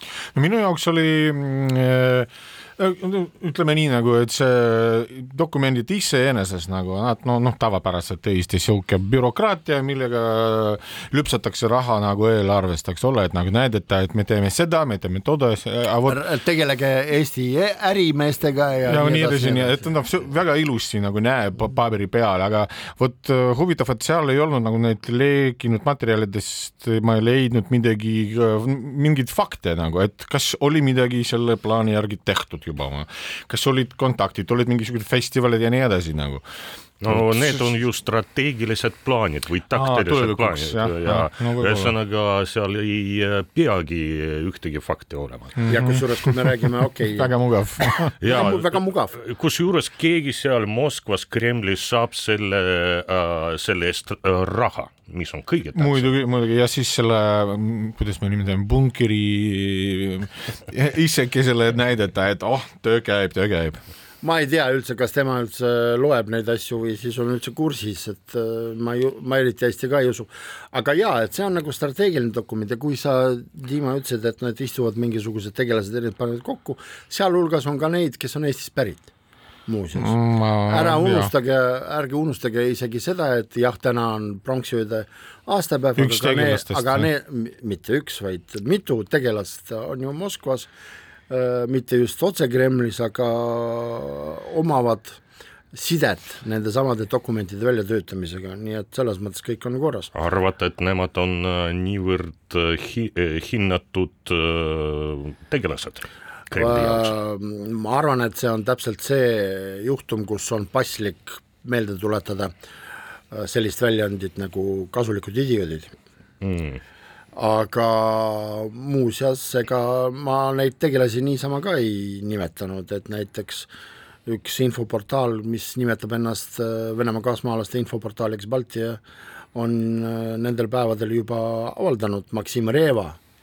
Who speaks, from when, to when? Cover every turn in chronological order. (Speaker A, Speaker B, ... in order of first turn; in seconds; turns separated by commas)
Speaker A: 0.3-16.2, Speaker B: 16.1-19.8, Speaker A: 18.9-36.4, Speaker C: 37.0-45.7, Speaker A: 37.1-37.7, Speaker A: 39.7-41.9, Speaker A: 45.6-46.3, Speaker B: 45.7-47.4, Speaker A: 47.2-48.1, Speaker B: 48.1-49.2, Speaker C: 48.2-56.1, Speaker A: 55.7-63.8, Speaker B: 64.2-79.1, Speaker B: 79.7-90.7, Speaker A: 80.0-81.3, Speaker A: 86.0-87.1, Speaker B: 91.3-95.2, Speaker B: 95.7-100.1, Speaker C: 100.1-107.1, Speaker B: 106.5-112.5, Speaker B: 113.3-115.9, Speaker C: 116.4-116.8, Speaker B: 117.3-123.7, Speaker B: 124.2-129.0, Speaker B: 129.5-133.2